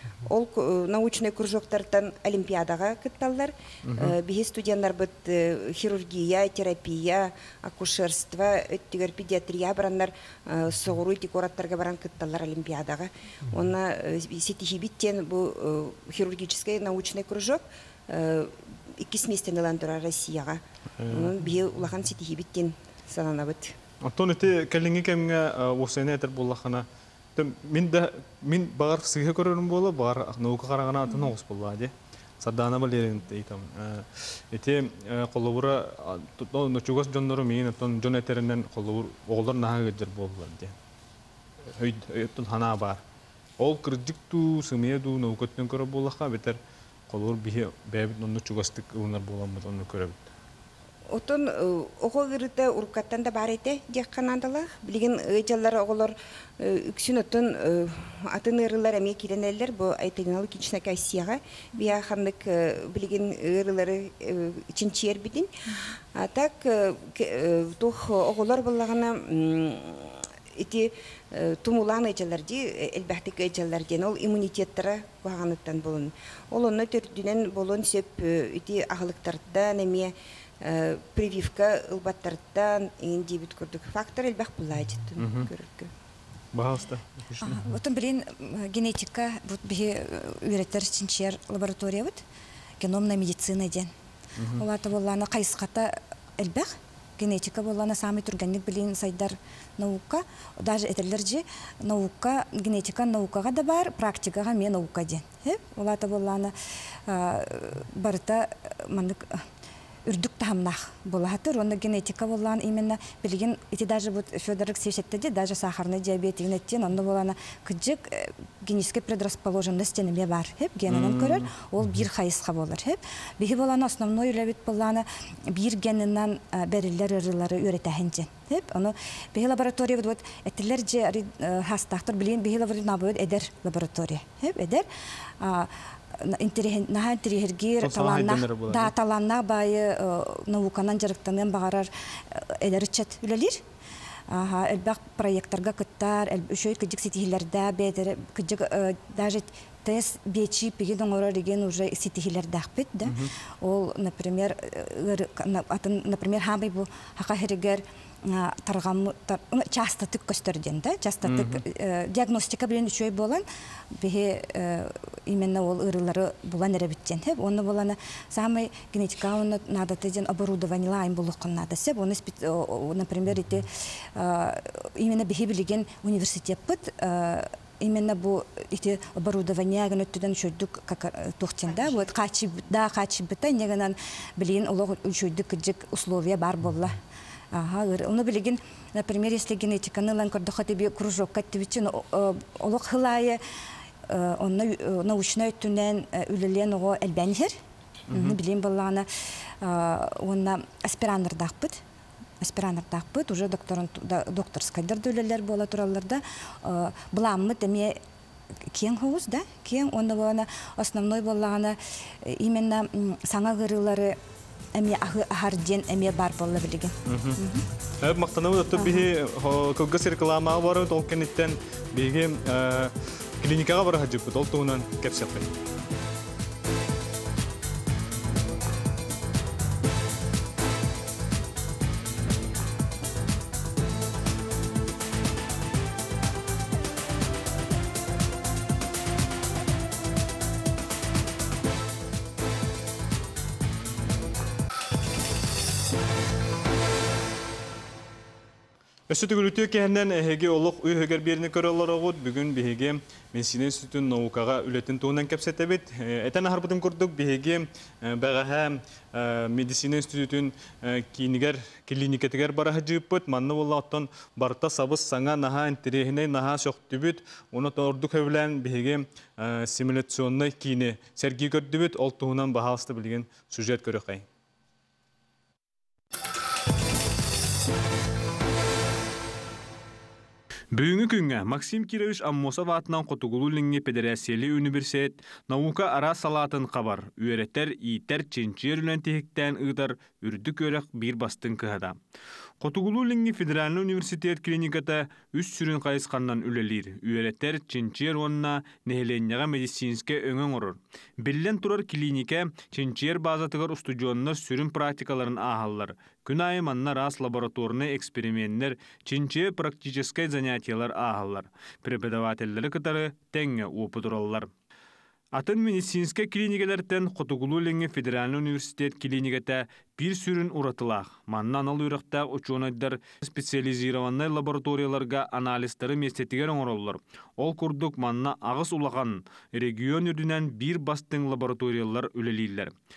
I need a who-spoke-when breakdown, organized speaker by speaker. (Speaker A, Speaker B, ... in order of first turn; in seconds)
Speaker A: 0.2-23.8, 51.1-65.5, 66.1-85.9, 181.8-182.1
Speaker B: 3.8-4.2, 21.0-21.3, 24.0-40.8, 41.7-43.0, 43.6-50.3, 85.2-85.5, 86.5-87.7, 94.4-94.6, 120.9-121.5, 137.8-138.9, 153.0-153.3, 161.2-161.6, 198.1-198.4, 217.1-217.4, 218.0-225.5, 249.1-274.2, 280.7-292.0, 292.6-314.5, 315.4-332.7
Speaker C: 87.4-92.2, 92.8-93.9, 94.5-106.5, 107.1-109.3, 110.0-134.8, 135.4-143.6, 144.3-163.4, 164.0-187.0, 187.5-193.4, 194.1-197.6, 198.1-199.1, 199.6-201.8, 202.4-208.0, 208.7-214.2, 214.8-217.7, 218.7-219.1